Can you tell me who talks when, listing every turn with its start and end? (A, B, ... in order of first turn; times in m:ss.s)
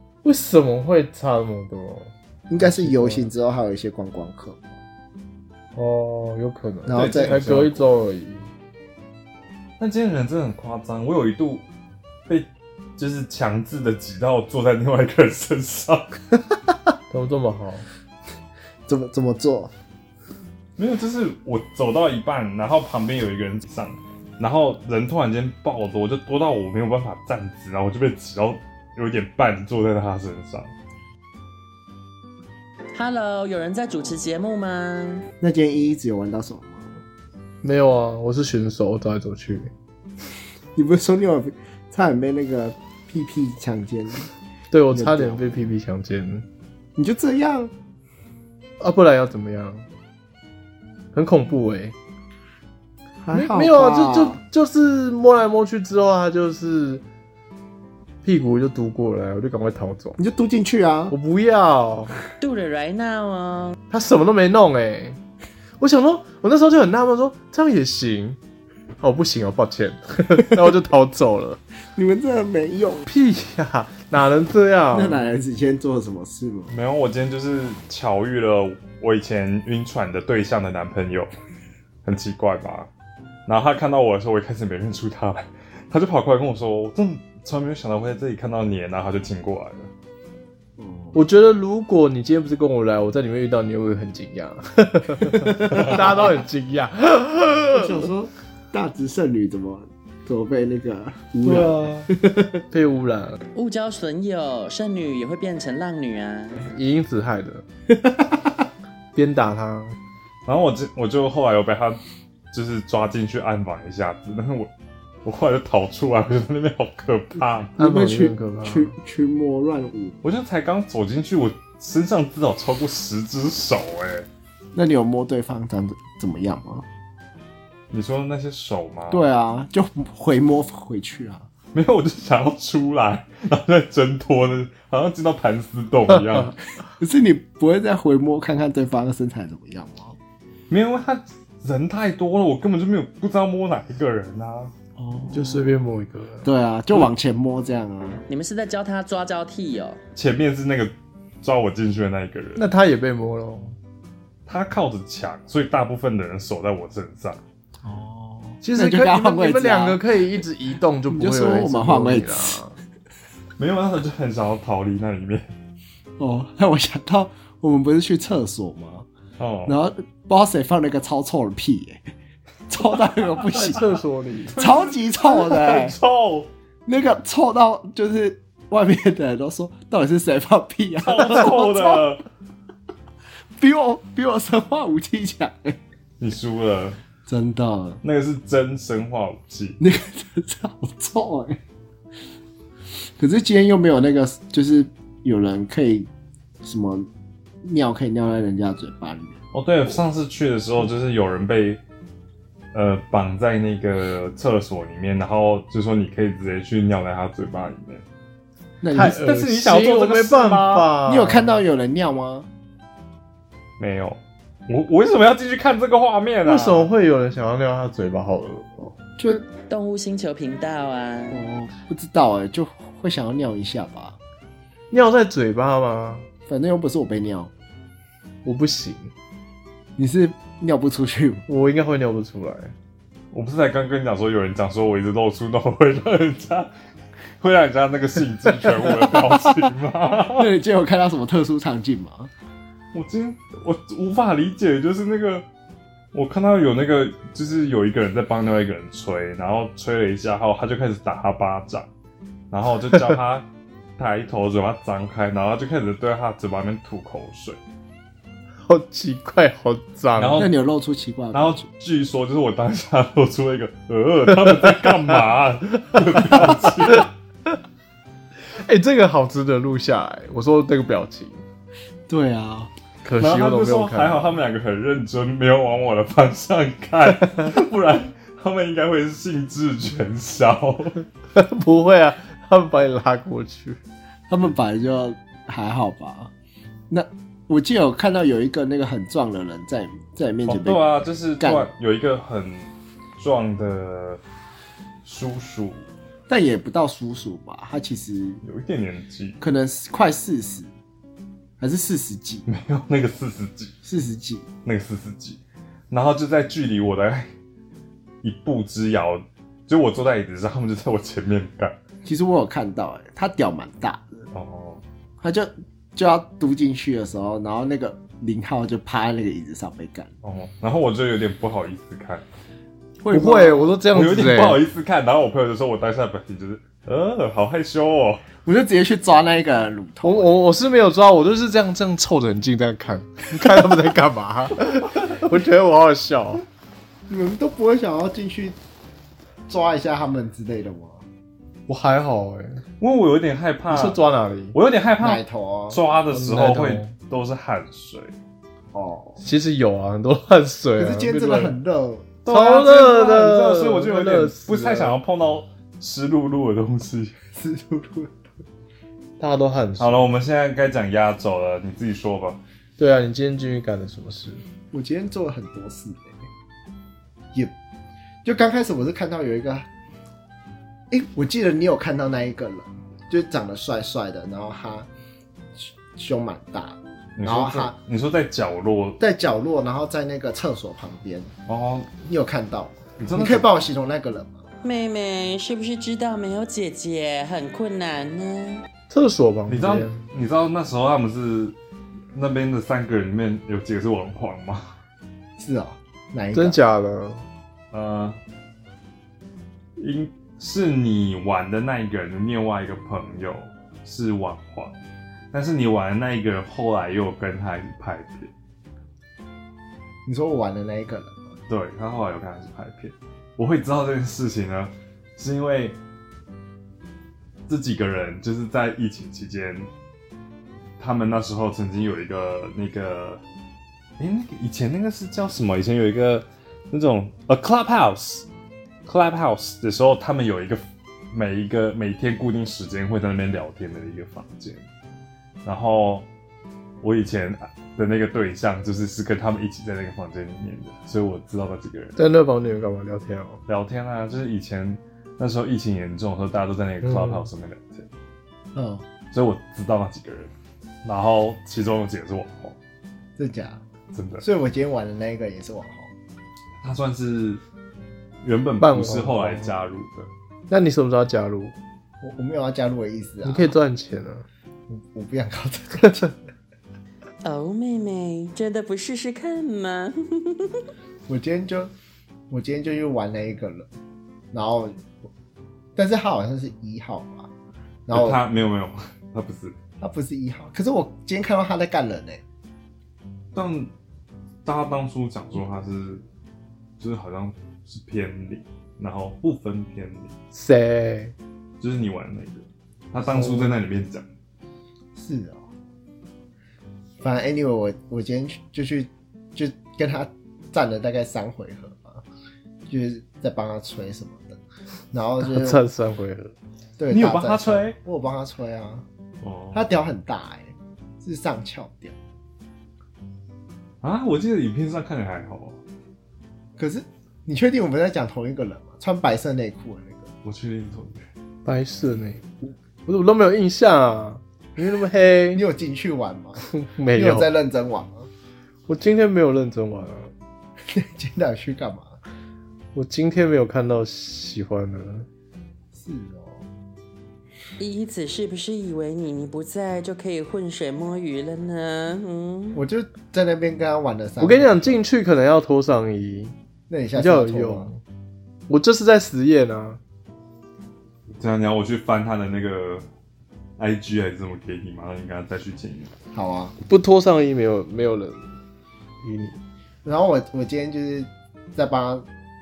0:00.2-0:03.3 A
0:02.5-0:04.7 B
0:05.8-0:08.5 A
0:06.9-0:07.5 B
0:06.9-0:07.9 C
0:09.8-0:11.6 C
0:12.3-0:16.2 C
0:17.1-0:17.9 A
0:18.9-0:19.7 B
0:20.8-0:30.7 C
0:32.9-0:35.3 D
0:35.4-0:37.0 B
0:37.6-0:39.7 A
0:40.8-0:44.3 B
0:44.7-0:46.4 A
0:44.9-0:45.6 B
0:47.0-0:47.7 B
0:48.8-0:49.9 A
0:51.1-0:52.0 A
0:53.2-0:54.4 B
0:53.3-0:57.0 A
0:58.2-1:00.2 A
1:00.2-1:01.2 B
1:01.1-1:02.2 A
1:02.4-1:03.8 D
1:03.9-1:05.2 A
1:05.8-1:08.4 A
1:09.0-1:11.6 A
1:12.0-1:13.1 B
1:13.1-1:15.2 A
1:14.9-1:16.7 B
1:16.7-1:21.3 C
1:22.0-1:22.9 C
1:23.5-1:29.9 C
1:30.8-1:31.2 B
1:31.1-1:38.0 A
1:35.6-1:36.2 B
1:35.7-1:36.0 C
1:37.7-1:42.6 B
1:41.4-1:42.1 A
1:42.7-1:43.4 A
1:43.5-1:46.6 D
1:46.6-1:47.6 A
1:47.9-1:48.4 B
1:49.2-1:50.0 A
1:50.5-1:52.0 C
1:52.5-1:54.7 C
1:55.2-1:57.7 C
1:57.8-2:00.2 B
1:57.8-1:59.0 A
2:00.2-2:04.3 C
2:04.7-2:06.9 B
2:07.9-2:09.2 C
2:09.1-2:11.5 B
2:11.7-2:16.6 C
2:16.1-2:16.5 A
2:17.0-2:20.2 B
2:20.7-2:24.7 C
2:25.0-2:25.7 B
2:25.3-2:26.5 A
2:26.4-2:28.2 B
2:28.3-2:30.0 D
2:30.2-2:32.7 C
2:32.6-2:33.8 A
2:34.5-2:37.4 C
2:37.8-2:40.0 B
2:38.6-2:42.8 A
2:41.1-2:42.6 B
2:43.6-2:45.5 C
2:46.2-2:49.1 B
2:49.4-2:49.8 C
2:49.7-2:52.0 B
2:52.7-2:53.9 B
2:53.4-2:54.6 A
2:54.6-2:56.0 B
2:54.6-2:56.5 C
2:56.9-3:02.0 B
3:01.0-3:02.2 C
3:03.6-3:05.8 B
3:06.2-3:07.0 C
3:07.3-3:08.0 B
3:08.0-3:09.8 C
3:09.8-3:11.6 B
3:13.2-3:16.1 B
3:16.6-3:17.1 B
3:17.6-3:19.4 B
3:19.5-3:21.8 C
3:22.7-3:28.0 C
3:28.8-3:29.2 B
3:28.9-3:31.6 A
3:29.0-3:30.9 C
3:31.1-3:32.5 B
3:33.8-3:36.9 C
3:36.4-3:39.0 A
3:39.2-3:39.5 B
3:39.7-3:41.4 D
3:41.3-3:44.2 B
3:44.9-3:46.3 A
3:46.5-3:47.5 B
3:48.4-3:49.1 A
3:50.0-3:51.5 B
3:51.5-3:52.7 A
3:53.3-3:56.7 C
3:57.4-4:00.5 C
4:00.3-4:02.3 B
4:02.9-4:05.4 C
4:06.1-4:11.9 C
4:12.5-4:13.5 C
4:14.0-4:17.6 C
4:18.6-4:20.5 A
4:20.2-4:20.5 C
4:20.4-4:21.6 B
4:21.3-4:27.1 C
4:26.4-4:27.0 A
4:28.6-4:31.4 A
4:32.1-4:32.7 B
4:33.0-4:34.3 A
4:33.2-4:41.0 C
4:41.4-4:43.8 A
4:44.3-4:46.3 B
4:46.9-4:51.7 B
4:50.5-4:54.2 C
4:55.0-4:55.9 C
4:56.3-4:58.4 B
4:58.4-4:59.4 C
4:59.4-5:00.7 B
5:01.6-5:02.4 B
5:02.5-5:03.8 C
5:03.8-5:04.5 B
5:04.6-5:07.3 C
5:08.2-5:11.8 C
5:12.0-5:14.3 B
5:14.3-5:14.8 C
5:15.2-5:20.1 B
5:20.2-5:22.2 C
5:23.0-5:23.8 B
5:23.1-5:24.6 A
5:23.9-5:28.2 C
5:28.4-5:30.3 B
5:30.0-5:36.4 A
5:37.1-5:38.6 B
5:39.5-5:41.0 B
5:41.7-5:42.6 A
5:42.8-5:44.0 C
5:43.7-5:44.6 A
5:44.5-5:48.1 C
5:45.0-5:45.8 B
5:46.1-5:46.9 A
5:48.7-5:49.2 B
5:49.2-5:51.6 A
5:50.8-5:52.2 B
5:52.2-5:57.2 C
5:52.3-5:55.0 A
5:57.4-5:58.3 B
5:59.2-6:00.0 A
5:59.8-6:02.4 C
6:02.8-6:04.4 A
6:04.7-6:06.3 B
6:08.2-6:09.7 B
6:10.9-6:14.9 B
6:15.6-6:17.8 B
6:17.2-6:19.0 C
6:19.0-6:21.3 B
6:21.5-6:22.0 C
6:22.0-6:24.4 B
6:23.0-6:23.5 C
6:24.6-6:28.6 D
6:28.9-6:30.0 A
6:29.5-6:31.6 C
6:32.1-6:34.7 C
6:35.4-6:36.6 B
6:36.3-6:37.2 A
6:37.7-6:38.2 C
6:39.8-6:44.8 C
6:45.3-6:48.3 C
6:50.1-6:51.2 B
6:51.5-6:55.8 C
6:57.5-6:59.7 C
7:00.8-7:03.2 C
7:04.0-7:08.3 C
7:08.9-7:14.6 C
7:15.4-7:16.1 C
7:16.8-7:22.0 C
7:22.0-7:23.4 A
7:23.5-7:27.9 C
7:26.8-7:27.3 A
7:28.6-7:28.8 B
7:29.1-7:30.3 C
7:30.8-7:32.6 C
7:33.2-7:33.6 B
7:33.9-7:34.3 C
7:34.2-7:35.9 B
7:36.6-7:37.4 C
7:38.2-7:40.1 C
7:38.6-7:39.5 A
7:40.5-7:41.6 A
7:42.0-7:43.5 B
7:43.2-7:44.2 A
7:44.7-7:46.1 B
7:47.2-7:50.6 D
7:51.1-7:51.7 B
7:52.3-7:53.7 B
7:54.3-7:54.8 B
7:55.8-7:57.3 B
7:57.9-7:58.2 B
7:57.9-7:59.6 C
7:59.8-8:02.2 B
8:03.4-8:03.7 C
8:04.4-8:06.0 C
8:06.8-8:10.1 C
8:10.3-8:11.1 A
8:11.6-8:14.0 C
8:13.1-8:13.6 A
8:15.0-8:15.5 B
8:17.0-8:22.0 B
8:22.7-8:24.4 B
8:24.9-8:25.6 B
8:25.2-8:26.3 A
8:26.8-8:28.9 B
8:26.9-8:27.8 C
8:29.2-8:29.6 C
8:29.5-8:32.0 B
8:33.8-8:35.6 C
8:36.6-8:40.1 B
8:40.2-8:41.1 C
8:41.4-8:42.2 A
8:42.9-8:45.4 A
8:45.3-8:48.1 B
8:46.5-8:47.3 A
8:48.7-8:50.1 A
8:50.7-8:52.0 B
8:52.7-8:55.1 A
8:55.7-8:56.4 B
8:57.6-9:02.6 D
9:02.5-9:04.8 B
9:04.2-9:06.4 A
9:06.7-9:07.7 B
9:07.0-9:07.8 A
9:08.5-9:09.8 A
9:11.2-9:12.8 C
9:13.6-9:15.9 C
9:16.1-9:16.6 B
9:16.7-9:18.4 A
9:19.0-9:19.4 A
9:19.8-9:22.1 B